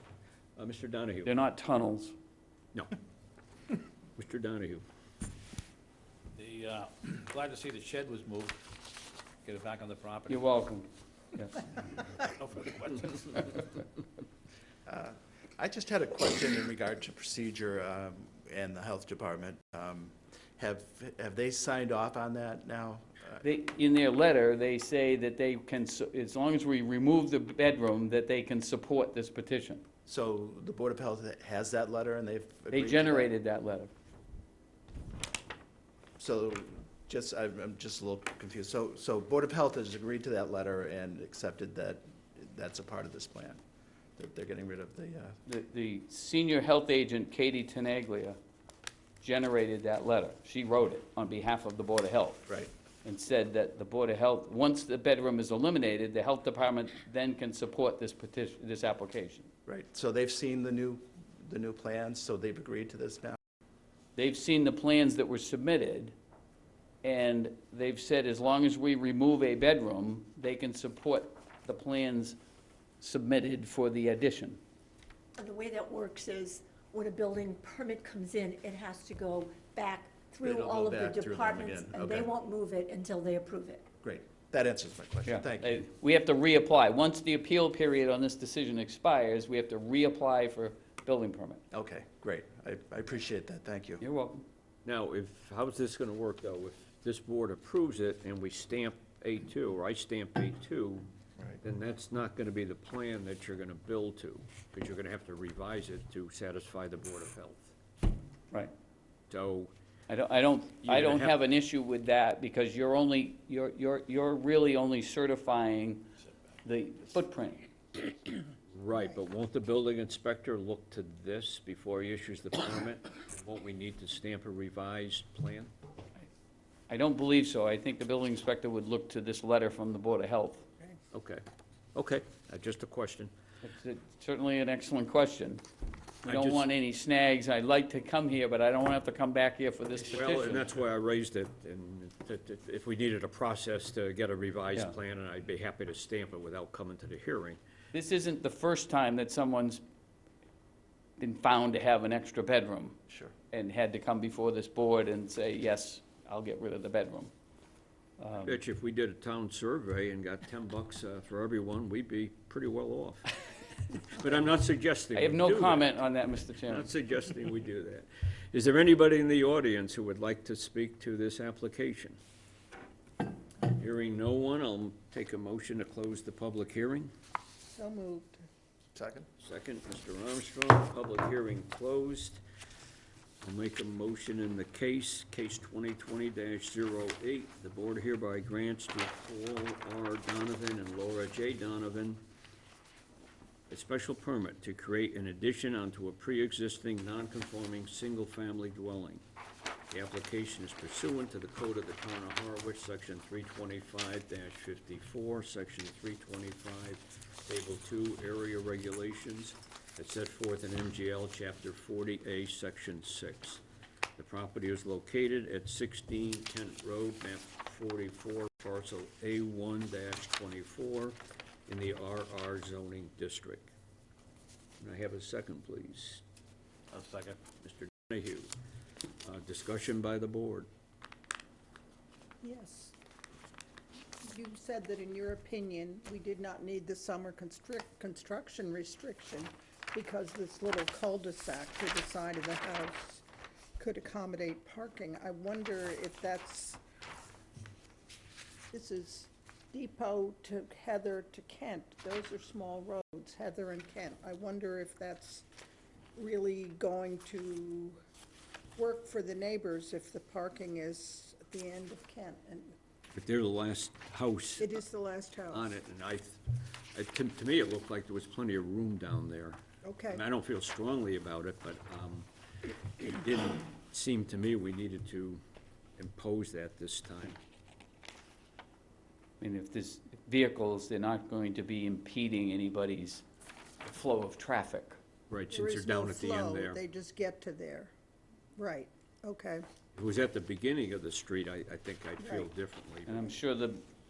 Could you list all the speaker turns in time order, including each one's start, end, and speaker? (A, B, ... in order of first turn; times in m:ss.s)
0:00.6-0:01.3 A
0:01.2-0:02.1 B
0:04.2-0:04.8 A
0:06.4-0:08.6 C
0:09.4-0:10.4 C
0:10.3-0:11.6 B
0:12.2-0:13.7 C
0:14.9-0:23.4 D
0:23.4-0:29.8 B
0:30.1-0:33.3 D
0:32.7-0:33.9 B
0:36.2-0:43.6 D
0:44.2-0:45.4 D
0:45.5-0:48.4 B
0:49.2-0:52.5 B
0:53.0-0:59.5 B
0:59.7-1:03.4 D
1:04.2-1:06.1 B
1:07.0-1:12.4 B
1:13.0-1:14.6 B
1:15.4-1:23.9 E
1:20.4-1:22.3 D
1:24.0-1:25.9 D
1:25.3-1:31.6 B
1:31.7-1:34.0 D
1:34.0-1:34.5 B
1:34.8-1:41.1 A
1:41.6-1:47.7 A
1:49.3-1:49.7 A
1:50.1-1:56.0 B
1:50.8-1:51.4 A
1:56.6-1:58.1 B
1:58.7-2:05.7 A
2:06.9-2:10.6 B
2:11.1-2:11.4 A
2:12.0-2:13.3 A
2:13.6-2:15.6 B
2:16.2-2:20.6 B
2:16.2-2:16.7 A
2:20.1-2:27.6 A
2:27.9-2:29.8 B
2:31.2-2:33.0 B
2:33.5-2:37.3 B
2:38.2-2:38.6 B
2:38.4-2:43.3 A
2:43.9-2:46.0 A
2:45.2-2:46.9 B
2:46.6-2:52.2 A
2:53.6-2:57.1 A
2:57.6-2:58.4 F
2:59.0-2:59.3 D
2:59.4-3:02.4 A
3:03.4-3:12.2 A
3:13.7-3:19.2 A
3:19.9-3:33.6 A
3:34.2-3:43.7 A
3:44.8-3:46.2 A
3:46.9-3:47.4 C
3:47.6-3:48.5 A
3:49.2-3:50.7 A
3:52.4-3:53.0 F
3:54.2-4:03.2 F
4:03.8-4:06.8 F
4:08.7-4:15.5 F
4:16.2-4:18.0 F
4:18.8-4:22.8 F
4:23.1-4:24.8 A
4:24.6-4:25.7 F
4:25.5-4:26.4 A
4:26.9-4:32.3 A
4:29.8-4:30.2 F
4:33.0-4:35.4 A
4:36.0-4:37.4 A
4:39.4-4:43.2 B
4:43.8-4:45.0 B
4:45.3-4:46.8 A
4:45.5-4:47.9 F
4:48.6-4:49.6 F
4:50.0-4:53.3 A
4:52.2-4:52.5 F
4:53.1-4:53.8 B